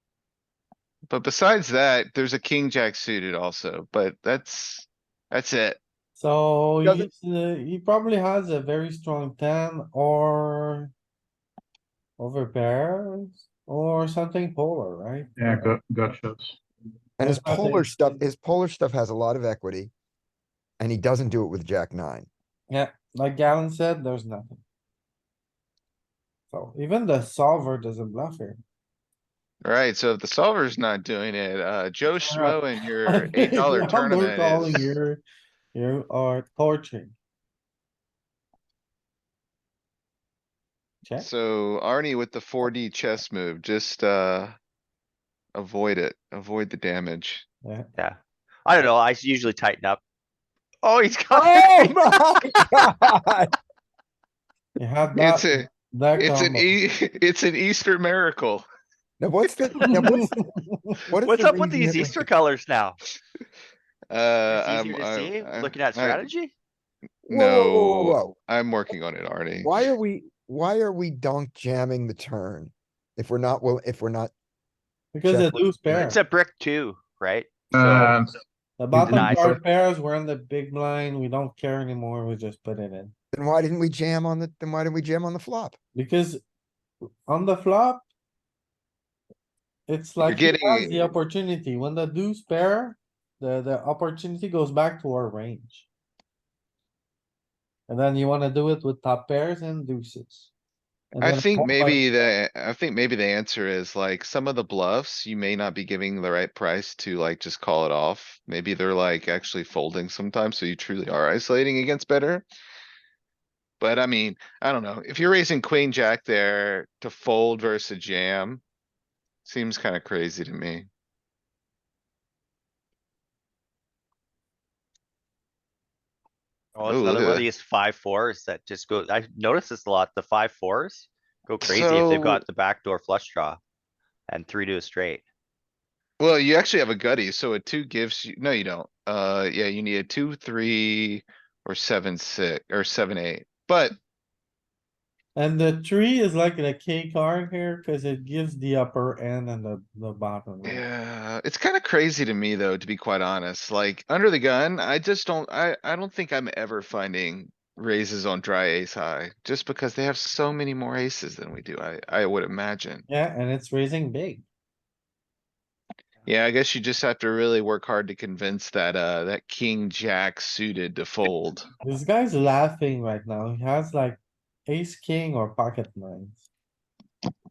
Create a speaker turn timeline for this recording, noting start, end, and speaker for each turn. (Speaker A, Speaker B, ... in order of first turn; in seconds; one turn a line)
Speaker A: 1.1-5.8
Speaker B: 6.2-10.9
Speaker C: 6.8-7.1
Speaker B: 12.2-15.3
Speaker D: 15.4-16.6
Speaker C: 17.2-19.9
Speaker B: 17.2-18.2
Speaker C: 20.8-22.3
Speaker B: 22.7-24.6
Speaker B: 26.5-28.6
Speaker A: 29.6-34.9
Speaker B: 32.1-35.2
Speaker B: 35.7-37.1
Speaker A: 41.2-44.5
Speaker A: 45.5-47.4
Speaker E: 48.0-50.0
Speaker E: 50.8-51.9
Speaker C: 51.4-53.5
Speaker B: 54.8-56.7
Speaker A: 55.1-58.6
Speaker C: 59.2-60.4
Speaker B: 60.0-61.0
Speaker C: 61.1-62.3
Speaker E: 61.2-63.0
Speaker A: 64.1-66.3
Speaker E: 64.5-66.5
Speaker C: 67.3-68.3
Speaker A: 67.3-69.7
Speaker C: 69.6-74.3
Speaker B: 75.1-76.2
Speaker C: 75.2-75.5
Speaker E: 75.9-77.5
Speaker D: 77.7-78.3
Speaker B: 78.8-83.1
Speaker D: 78.9-79.4
Speaker E: 79.0-79.6
Speaker C: 83.3-85.8
Speaker B: 85.9-86.4
Speaker B: 87.3-88.0
Speaker B: 89.9-95.9
Speaker A: 90.2-91.1
Speaker B: 97.9-100.5
Speaker B: 101.1-102.0
Speaker A: 101.2-112.5
Speaker A: 113.8-118.6
Speaker A: 119.4-120.9
Speaker E: 126.7-133.6
Speaker A: 126.8-127.5
Speaker A: 131.7-132.4
Speaker E: 134.3-135.2
Speaker A: 136.2-144.0
Speaker B: 145.3-150.8
Speaker A: 150.6-163.0
Speaker B: 163.1-164.4
Speaker A: 166.2-171.7
Speaker B: 171.8-176.5